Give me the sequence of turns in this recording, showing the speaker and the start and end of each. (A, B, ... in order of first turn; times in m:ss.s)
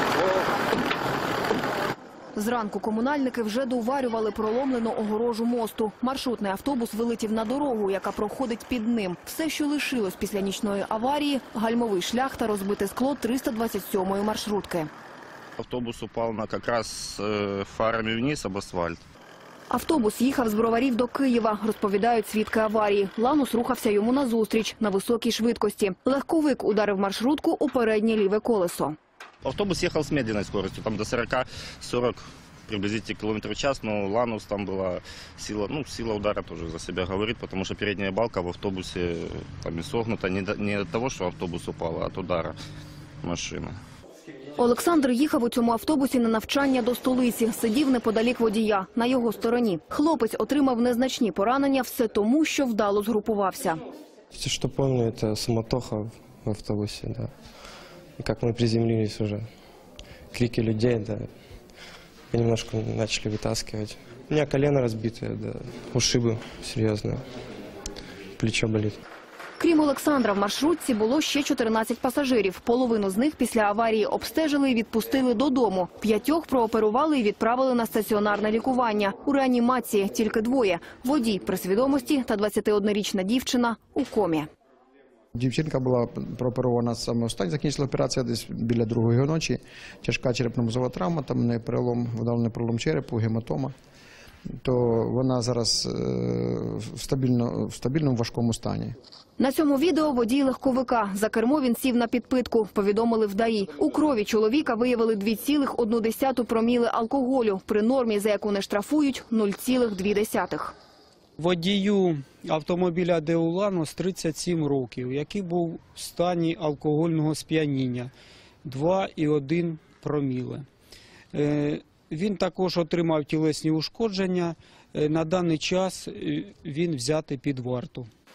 0:02.4-0:14.9 A
0:15.6-0:19.0 B
0:19.7-0:29.0 A
0:29.4-0:42.6 B
0:43.2-0:43.8 B
0:44.6-0:53.8 A
0:54.3-0:57.3 C
0:58.2-0:59.5 C
1:00.3-1:01.3 C
1:02.3-1:07.2 C
1:08.4-1:09.0 C
1:09.6-1:24.5 A
1:25.4-1:33.7 D
1:34.6-1:39.0 D
1:39.4-1:50.8 A
1:51.4-1:58.1 E
1:58.6-2:00.7 E
2:01.3-2:08.1 E